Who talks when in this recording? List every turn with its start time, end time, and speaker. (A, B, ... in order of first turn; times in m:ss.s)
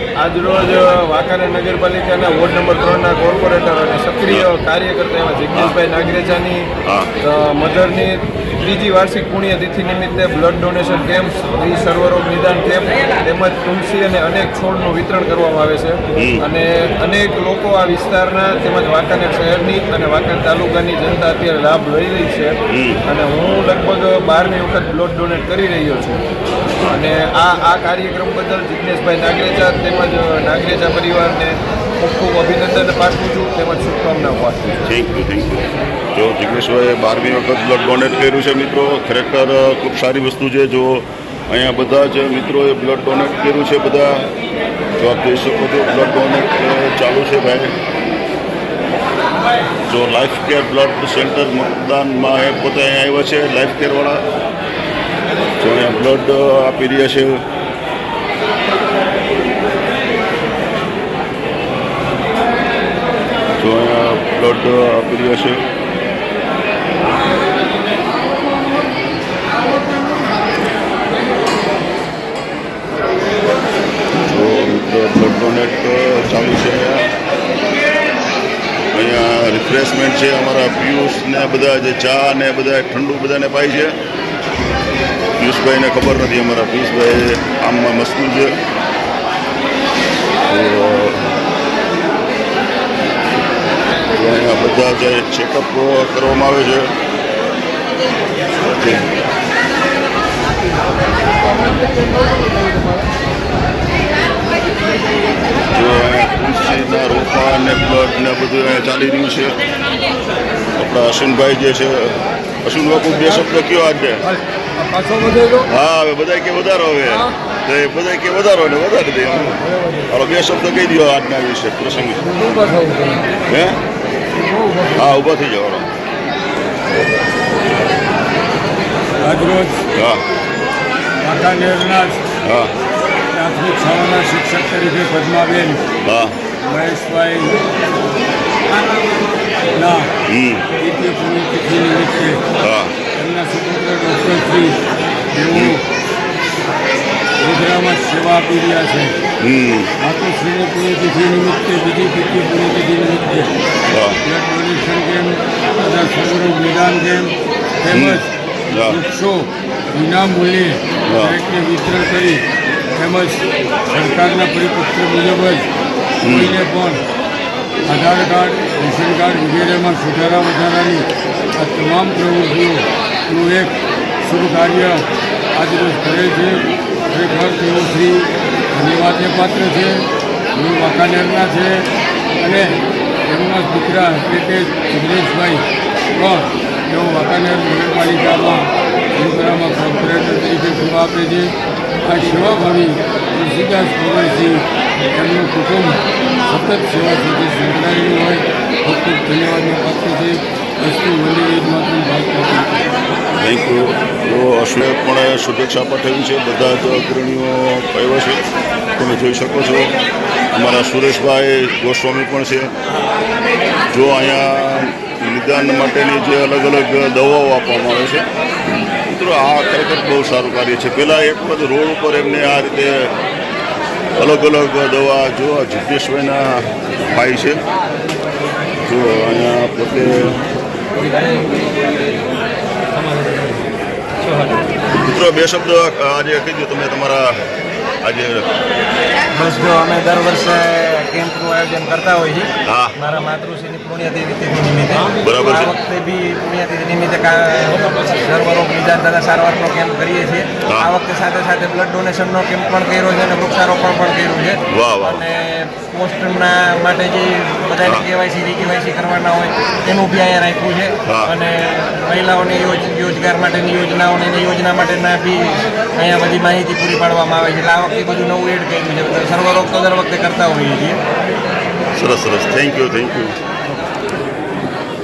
0:00.2-0:06.7 A
0:06.9-0:07.1 B
0:07.2-0:22.6 A
0:16.2-0:16.5 B
0:22.7-0:23.0 B
0:23.1-0:26.2 A
0:26.8-0:34.8 A
0:34.8-0:44.3 B
0:45.0-0:47.7 B
0:49.9-0:54.2 B
0:55.6-0:57.4 B
1:03.6-1:05.6 B
1:14.2-1:17.1 B
1:18.9-1:24.0 B
1:25.4-1:28.6 B
1:30.5-1:31.3 B
1:34.1-1:36.9 B
1:38.6-1:39.1 B
1:45.7-1:49.6 B
1:50.8-1:54.3 B
1:54.8-1:55.6 A
1:55.7-2:02.3 B
2:02.4-2:03.1 A
2:03.5-2:03.8 B
2:04.6-2:05.0 A
2:04.9-2:05.9 B
2:09.2-2:09.8 C
2:09.9-2:10.2 B
2:11.2-2:12.2 C
2:12.4-2:12.7 B
2:13.3-2:15.8 C
2:16.0-2:16.4 B
2:16.6-2:17.6 C
2:19.7-2:20.1 C
2:20.3-2:20.7 B
2:20.8-2:22.4 C
2:22.6-2:23.0 B
2:23.2-2:24.8 C
2:25.3-2:25.8 C
2:27.4-2:29.2 C
2:29.4-2:29.9 B
2:30.0-2:33.5 C
2:33.9-2:34.2 B
2:34.3-2:38.3 C
2:37.9-2:39.0 B
2:38.9-2:42.4 C
2:41.1-2:41.4 B
2:43.0-2:45.7 C
2:46.2-2:46.6 B
2:46.2-2:47.0 C
2:47.9-3:01.9 C
3:02.4-3:05.6 C
3:06.2-3:11.5 C
3:12.0-3:22.9 C
3:23.4-3:29.9 B
3:30.5-3:32.7 B
3:33.9-3:38.3 B
3:38.9-3:43.1 B
3:44.2-3:47.6 B
3:48.8-3:50.4 B
3:54.9-3:57.4 B
3:58.0-3:58.5 B
3:59.3-4:31.0 D
4:02.6-4:03.0 B
4:05.2-4:05.7 B
4:10.7-4:10.9 B
4:14.7-4:15.2 B
4:21.1-4:21.3 B
4:32.0-4:33.4 B